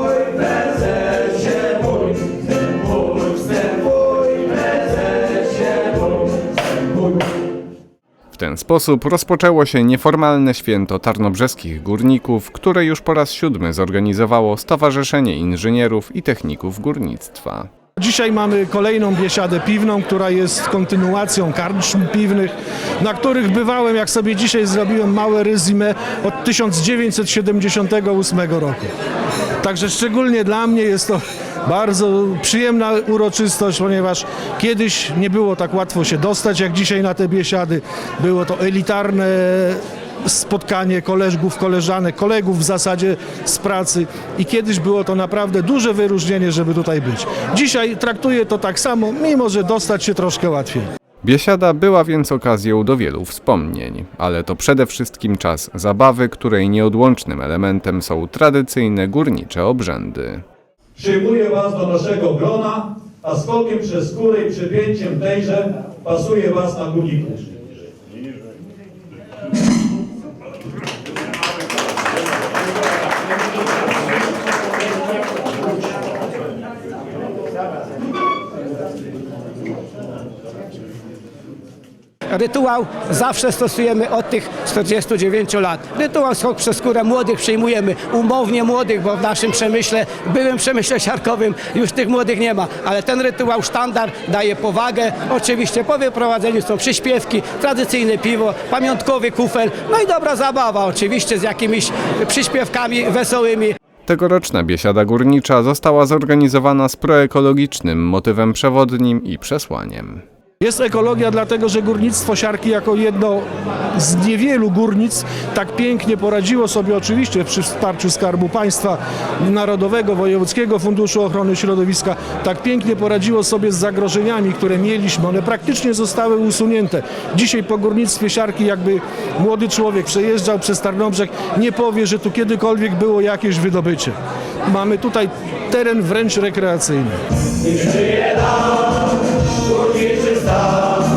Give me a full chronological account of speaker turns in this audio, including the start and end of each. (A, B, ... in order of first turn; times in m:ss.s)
0:08.3-0:17.7 A
0:18.0-0:28.9 B
0:29.6-0:50.9 B
0:51.2-1:00.4 A
1:01.0-1:07.5 C
1:22.3-1:43.7 D
1:44.1-1:50.2 A
1:50.6-2:14.1 B
2:14.7-2:17.2 B
2:17.9-2:18.2 D
2:19.7-2:20.8 D